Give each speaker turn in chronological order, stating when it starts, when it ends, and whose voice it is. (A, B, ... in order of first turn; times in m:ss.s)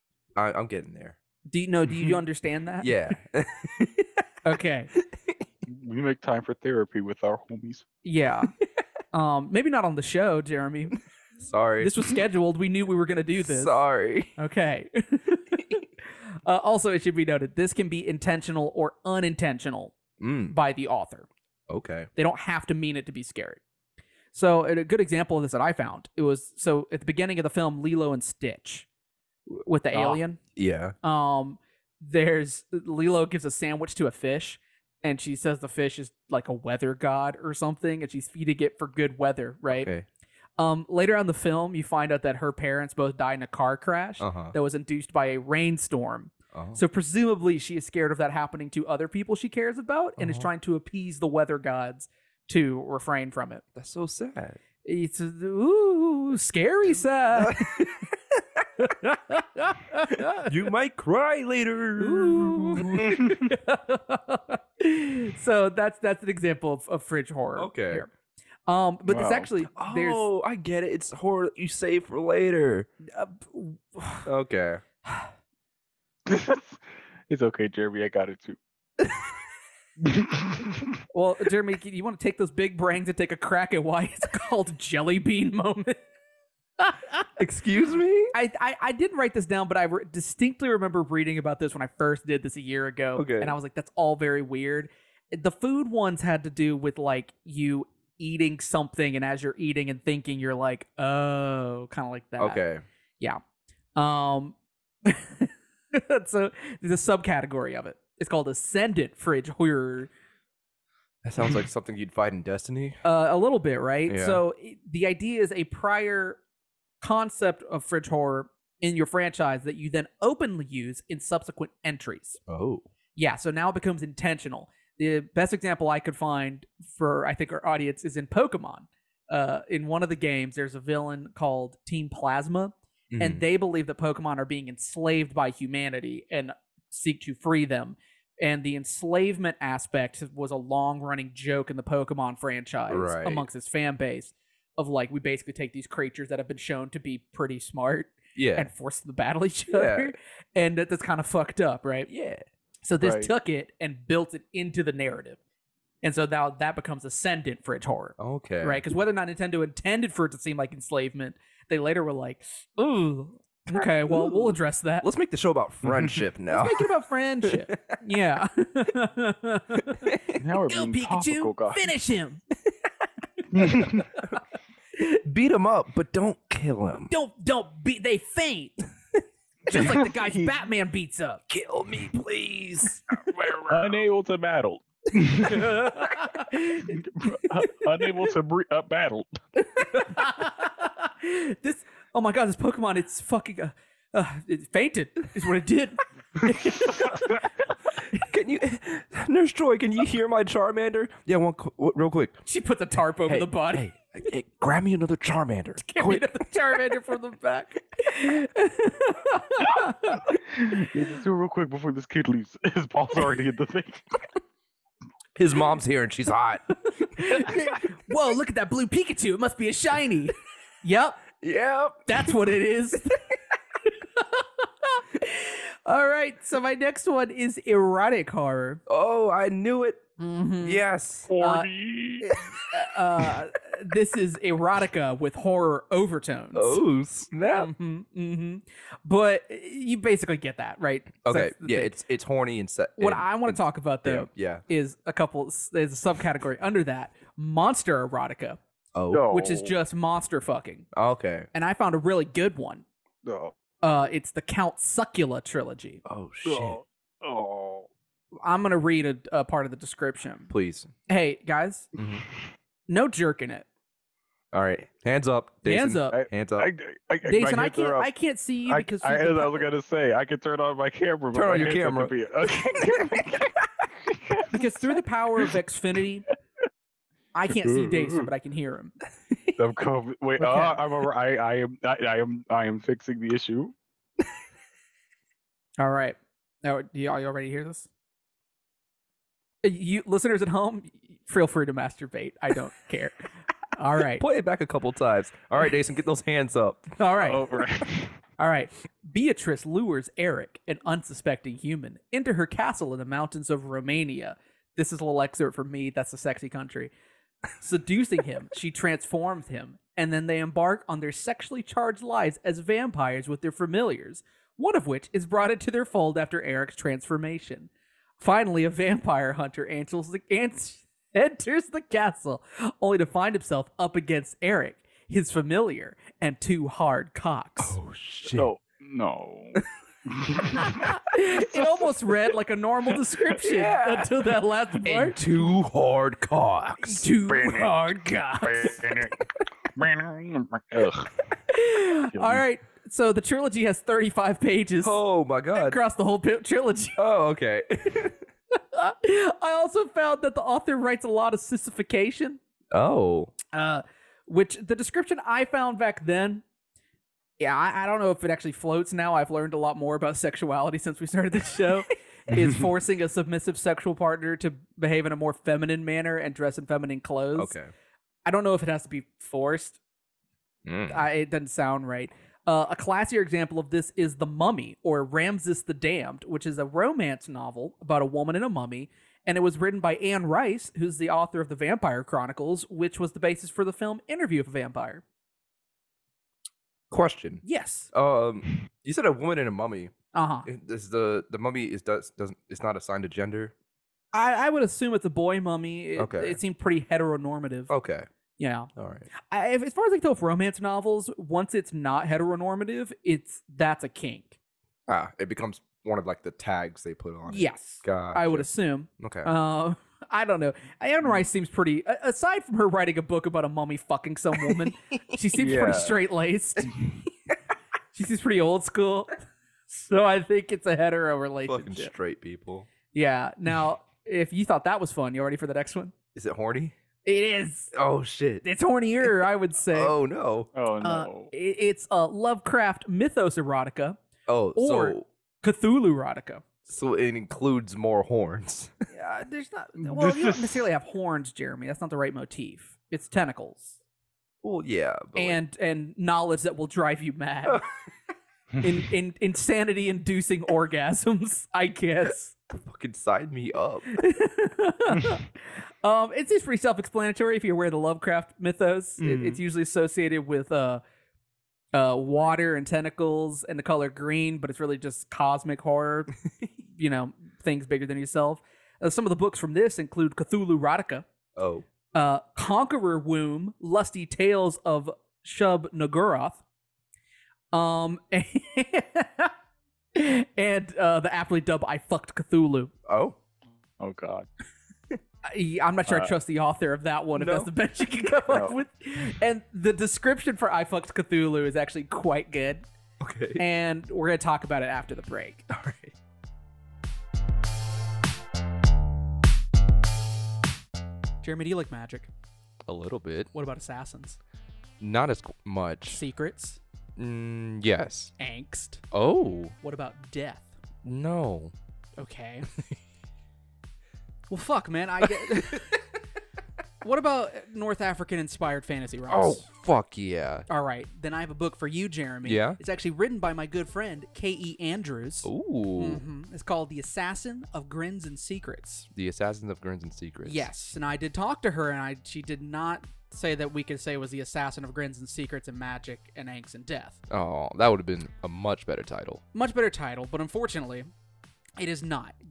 0:00.4-0:01.2 A
0:01.5-0:03.1 B
0:02.8-0:04.1 A
0:04.4-0:04.9 B
0:05.0-0:05.4 A
0:05.7-0:07.8 C
0:08.0-0:08.5 B
0:09.1-0:11.0 B
0:11.4-0:12.2 A
0:11.8-0:13.8 B
0:13.4-0:14.3 A
0:14.4-0:15.8 B
0:16.4-0:19.9 B
0:20.2-0:20.6 A
0:20.5-0:21.3 B
0:21.7-0:22.1 A
0:22.2-0:23.6 B
0:24.3-0:28.9 B
0:29.5-0:30.4 B
0:29.9-0:30.9 A
0:31.0-0:39.9 B
0:39.7-0:40.0 A
0:40.6-0:53.6 B
0:44.2-0:44.5 A
0:46.5-0:46.8 A
0:50.2-0:50.5 A
0:53.8-0:54.6 A
0:54.8-0:57.9 B
0:57.3-0:58.6 A
0:58.8-1:00.5 B
1:00.3-1:03.3 A
1:02.0-1:08.1 B
1:07.6-1:08.0 A
1:08.7-1:10.2 B
1:09.0-1:09.5 C
1:09.8-1:12.9 A
1:13.0-1:14.3 B
1:14.2-1:14.8 A
1:16.3-1:16.8 C
1:17.3-1:18.6 C
1:20.0-1:20.8 C
1:21.1-1:26.0 B
1:26.8-1:27.3 B
1:27.4-1:28.3 A
1:28.3-1:42.6 B
1:33.2-1:33.5 A
1:42.4-1:42.8 A
1:44.0-1:50.1 B
1:51.2-1:53.0 A
1:53.0-1:56.4 B
1:54.1-1:54.4 A
1:57.0-2:02.4 B
2:02.5-2:02.8 A
2:03.2-2:32.1 B
2:13.1-2:13.4 A
2:22.9-2:23.4 A
2:28.3-2:28.7 A
2:29.7-2:30.1 A
2:32.1-2:32.4 A
2:32.8-2:35.4 B
2:36.0-2:45.1 B
2:38.2-2:38.8 A
2:43.7-2:46.9 A
2:46.5-2:50.2 B
2:47.4-2:48.0 A
2:49.9-2:50.4 A
2:50.4-2:51.9 C
2:50.7-2:52.4 B
2:53.5-2:54.1 C
2:53.8-2:54.3 A
2:55.2-2:57.1 A
2:57.1-2:58.8 B
2:59.7-3:01.4 B
3:01.5-3:04.0 A
3:03.6-3:05.6 C
3:05.4-3:07.0 B
3:06.9-3:09.4 C
3:09.7-3:17.2 B
3:18.1-3:22.4 A
3:22.4-3:23.9 B
3:23.3-3:26.4 A
3:25.8-3:30.4 B
3:30.3-3:34.2 C
3:35.4-3:36.7 A
3:36.9-3:41.2 B
3:41.4-3:42.3 A
3:42.0-3:48.8 B
3:48.9-3:50.0 A
3:50.2-3:50.8 B
3:50.6-3:51.3 A
3:51.3-3:52.4 C
3:51.4-3:51.7 B
3:52.2-3:56.8 B
3:56.5-3:57.7 A
3:57.5-4:02.0 B
4:01.2-4:04.6 A
4:03.0-4:08.6 B
4:08.9-4:09.3 A
4:09.1-4:09.7 C
4:09.3-4:10.9 B
4:10.9-4:11.5 A
4:11.5-4:12.8 B
4:13.2-4:13.5 C
4:13.8-4:16.0 B
4:16.0-4:16.8 A
4:16.4-4:17.9 C
4:18.4-4:20.5 B
4:20.5-4:20.9 A
4:21.1-4:21.9 B
4:21.9-4:22.2 A
4:22.9-4:23.6 B
4:24.5-4:26.7 A
4:25.6-4:26.2 B
4:26.1-4:28.1 C
4:27.2-4:29.7 B
4:28.6-4:34.6 C
4:31.3-4:32.1 A
4:32.6-4:33.3 A
4:34.5-4:36.3 B
4:37.3-4:38.9 B
4:37.5-4:38.3 C
4:39.6-4:43.7 C
4:40.4-4:40.8 B
4:45.8-4:47.9 B
4:49.6-4:54.2 B
4:54.2-4:57.0 A
4:57.0-4:57.5 B
4:57.2-4:58.1 C
4:58.4-5:06.9 B
5:07.6-5:27.8 B
5:27.6-5:28.5 A
5:28.3-5:30.8 C
5:30.5-5:35.2 B
5:33.4-5:37.1 A
5:36.8-5:38.9 B
5:37.3-5:37.8 C
5:38.4-5:39.2 C
5:39.7-5:41.1 C
5:41.5-5:45.0 B
5:42.1-5:42.4 C
5:44.8-5:45.8 A
5:45.5-5:47.0 B
5:47.0-5:48.2 A
5:48.7-5:52.4 B
5:52.7-5:53.3 A
5:53.5-5:56.4 B
5:57.4-6:07.5 B
6:02.3-6:02.6 A
6:07.3-6:07.7 A
6:08.2-6:09.8 B
6:10.6-6:11.0 A
6:10.9-6:25.0 B
6:26.9-6:29.9 A
6:27.4-6:27.9 B
6:30.1-6:30.5 B
6:30.4-6:33.5 A
6:34.1-6:37.7 B
6:36.0-6:36.4 A
6:37.7-6:38.1 A
6:38.4-6:44.4 B
6:38.8-6:39.1 A
6:44.9-6:48.5 A
6:47.3-6:56.9 B
6:49.0-6:49.3 A
6:55.3-6:55.9 A
6:57.9-7:01.9 B
7:01.4-7:02.7 A
7:02.9-7:05.9 B
7:06.1-7:06.7 A
7:07.0-7:07.7 B
7:07.7-7:08.4 A
7:08.4-7:09.9 B
7:09.7-7:10.5 A
7:10.5-7:11.3 C
7:10.8-7:14.0 B
7:14.3-7:15.0 A
7:14.5-7:16.4 B
7:16.7-7:18.7 A
7:18.9-7:23.8 B
7:19.8-7:20.6 C
7:24.4-7:25.4 A
7:25.1-7:27.6 B
7:28.6-7:32.3 B
7:32.5-7:34.0 A
7:33.9-7:40.8 B
7:39.0-7:39.4 A
7:41.7-7:51.0 B
7:51.4-7:51.6 A
7:51.9-7:56.4 B
7:57.5-7:59.3 B
7:59.9-8:02.7 B
8:02.8-8:03.2 A
8:03.8-8:04.3 C
8:05.2-8:12.6 B
8:05.9-8:06.1 C
8:07.2-8:07.5 A
8:08.3-8:08.5 C
8:13.0-8:13.4 A
8:13.4-8:15.5 B
8:15.5-8:15.9 A
8:21.2-8:22.1 B
8:22.6-8:23.3 A
8:23.3-8:24.2 B
8:24.8-8:26.0 A
8:25.9-8:26.6 B
8:27.0-8:28.1 A
8:28.2-8:28.8 B
8:28.9-8:29.5 A
8:29.6-8:30.6 B
8:30.8-8:31.5 A
8:32.0-8:32.4 B
8:34.3-8:35.8 B
8:35.0-8:35.6 A
8:36.8-8:39.5 B
8:39.1-8:40.4 A
8:40.5-8:48.9 B
8:42.2-8:42.6 A
8:45.2-8:46.0 A
8:48.9-8:50.5 A
8:50.2-8:57.0 B
8:57.1-8:59.2 A
8:59.3-9:00.9 B
9:01.6-9:02.2 B